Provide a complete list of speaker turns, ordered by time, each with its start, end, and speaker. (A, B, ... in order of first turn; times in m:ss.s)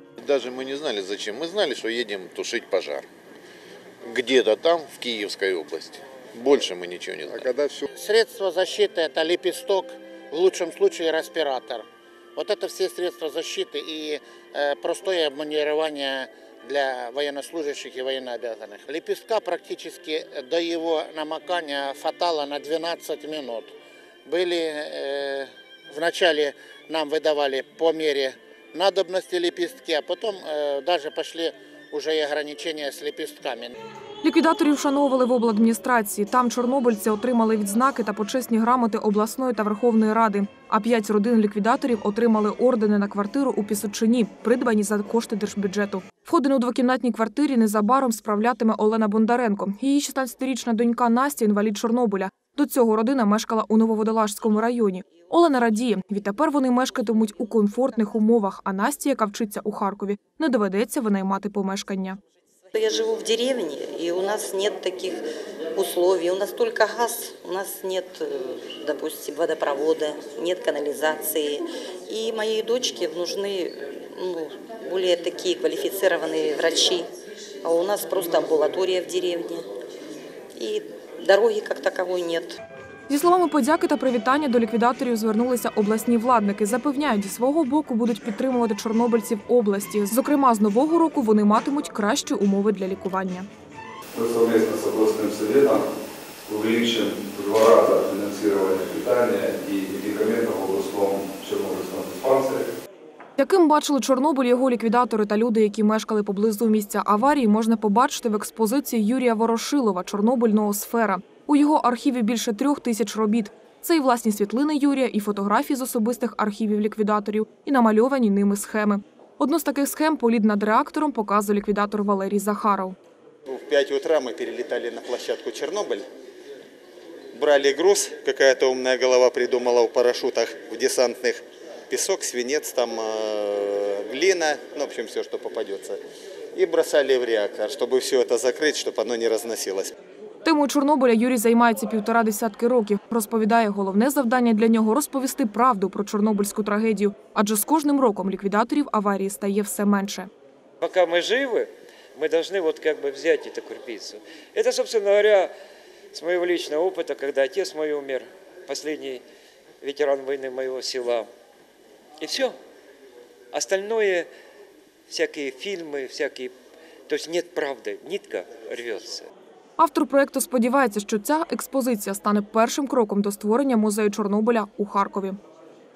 0:00.2-0:00.8 A
0:00.4-0:03.0 B
0:04.1-0:07.4 B
0:04.8-0:05.7 A
0:06.4-0:07.5 A
0:07.9-0:23.7 C
0:24.3-0:33.7 C
0:34.2-1:02.2 D
1:02.7-1:05.2 E
1:05.8-1:17.1 E
1:17.6-1:19.6 E
1:20.6-1:22.6 E
1:23.1-1:33.5 D
1:34.1-1:35.9 F
1:36.5-1:42.7 F
1:43.4-2:03.0 D
2:03.5-2:06.0 G
2:07.3-2:16.0 G
2:16.5-2:19.9 G
2:20.4-2:30.3 D
2:30.8-2:35.5 H
2:36.1-2:39.2 H
2:39.8-2:41.3 H
2:42.2-2:42.6 H
2:43.5-2:44.3 H
2:45.1-2:46.5 H
2:47.1-2:49.3 H
2:49.8-2:55.4 D